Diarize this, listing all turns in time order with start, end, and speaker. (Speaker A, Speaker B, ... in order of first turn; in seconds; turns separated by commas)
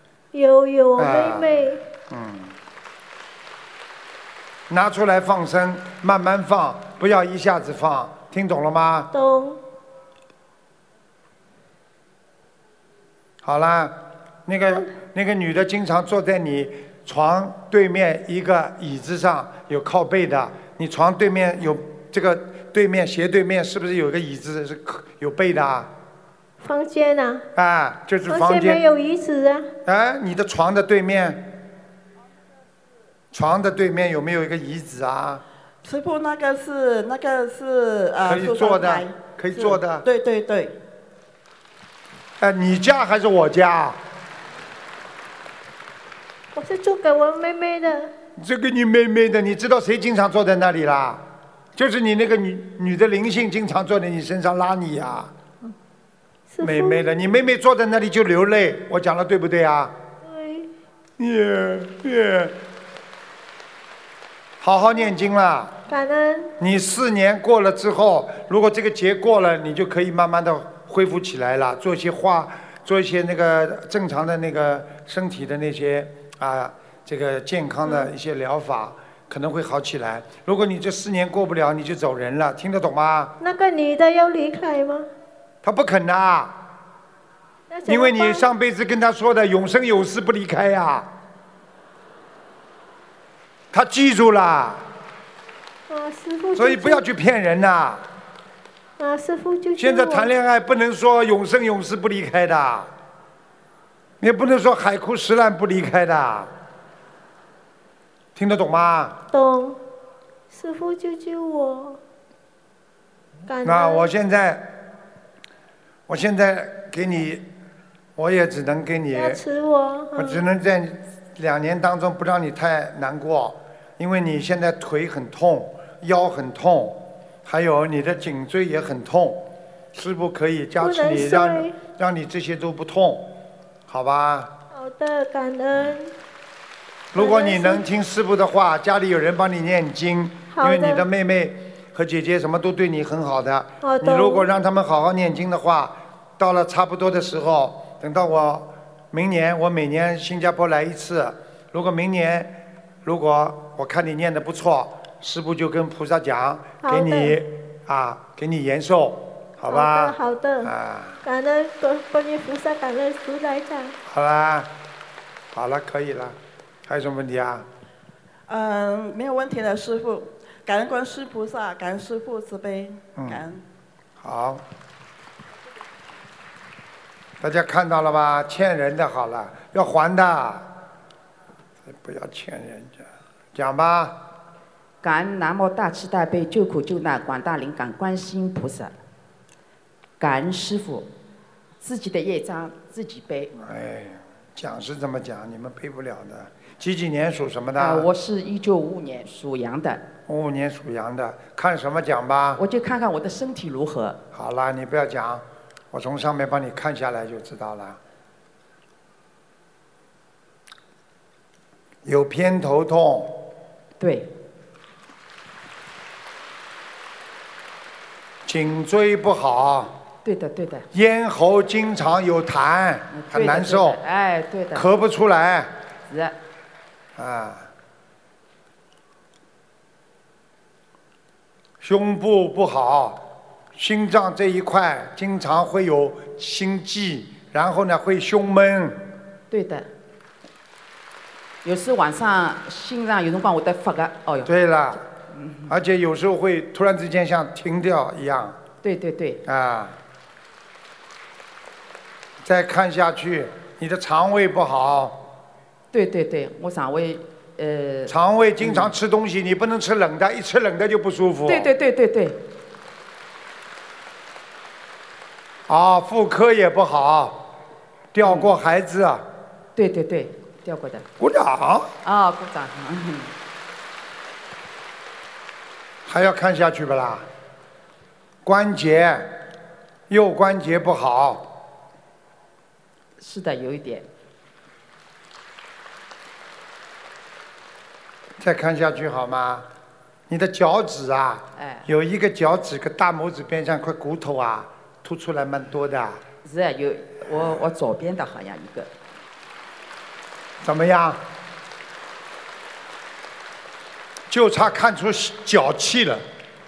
Speaker A: 0.3-1.8, Speaker B: 1.0-2.6, Speaker B: 4.7-9.1, Speaker A: 9.1-9.6, Speaker B: 13.4-25.9, Speaker A: 26.6-27.5, Speaker B: 27.6-28.8, Speaker A: 28.3-29.7, Speaker B: 29.9-31.4, Speaker B: 33.3-35.4, Speaker C: 35.8-40.8, Speaker B: 38.2-40.0, Speaker B: 42.4-44.0, Speaker A: 46.5-48.1, Speaker B: 48.4-51.2, Speaker B: 51.8-55.3, Speaker A: 56.5-57.0, Speaker B: 56.6-59.9, Speaker A: 60.2-60.7, Speaker B: 61.2-62.6, Speaker B: 64.6-65.8, Speaker A: 65.9-66.5, Speaker B: 66.6-83.3, Speaker A: 83.4-85.1, Speaker B: 85.6-86.6, Speaker A: 87.7-88.5, Speaker B: 87.9-91.1, Speaker B: 93.7-94.8, Speaker A: 95.9-97.0, Speaker B: 96.6-98.0, Speaker A: 99.0-100.3, Speaker B: 99.8-102.9, Speaker B: 104.2-106.5, Speaker B: 108.4-109.2, Speaker A: 109.3-109.8, Speaker A: 110.5-112.0, Speaker A: 113.5-114.1, Speaker B: 113.6-114.8, Speaker B: 116.1-117.5, Speaker B: 118.2-119.4, Speaker A: 119.1-120.4, Speaker B: 120.2-134.5, Speaker A: 130.8-131.8, Speaker A: 134.7-136.1, Speaker B: 137.1-161.2, Speaker A: 137.1-137.8, Speaker A: 140.5-141.0, Speaker A: 143.8-144.5, Speaker A: 156.8-157.4, Speaker A: 159.7-160.7, Speaker A: 161.2-164.0, Speaker B: 164.1-164.7, Speaker B: 165.5-167.7, Speaker C: 168.5-173.6, Speaker B: 173.2-173.4, Speaker B: 174.2-174.6, Speaker B: 177.4-180.7, Speaker B: 181.8-184.2, Speaker D: 185.0-188.9, Speaker D: 190.2-191.1, Speaker D: 191.8-193.5, Speaker B: 193.6-198.1, Speaker D: 197.8-200.0, Speaker B: 200.3-202.6, Speaker D: 202.6-204.2, Speaker B: 204.3-208.0, Speaker B: 212.1-213.5, Speaker D: 214.0-214.3, Speaker B: 218.4-219.9, Speaker D: 220.2-220.9, Speaker B: 220.9-224.0, Speaker D: 223.1-224.9, Speaker B: 224.7-225.7, Speaker D: 226.1-226.3, Speaker B: 227.2-227.7, Speaker B: 231.8-233.2, Speaker B: 233.8-239.0, Speaker D: 239.5-239.9, Speaker D: 241.6-244.5, Speaker B: 244.4-245.0, Speaker D: 245.3-245.7, Speaker B: 245.7-248.6, Speaker D: 248.8-249.4, Speaker B: 249.4-250.0, Speaker B: 252.4-255.2, Speaker D: 255.9-258.9, Speaker B: 258.1-261.7, Speaker D: 261.5-262.4, Speaker B: 265.7-267.5, Speaker B: 268.1-269.3, Speaker D: 268.2-268.5, Speaker D: 269.8-271.1, Speaker B: 271.2-271.9, Speaker D: 272.0-273.3, Speaker B: 276.1-277.3, Speaker B: 278.4-279.4, Speaker B: 280.1-281.6, Speaker D: 283.2-284.1, Speaker B: 288.4-289.7, Speaker B: 290.3-296.2, Speaker D: 291.6-291.9, Speaker D: 296.4-298.9, Speaker B: 300.6-301.2, Speaker B: 304.3-306.2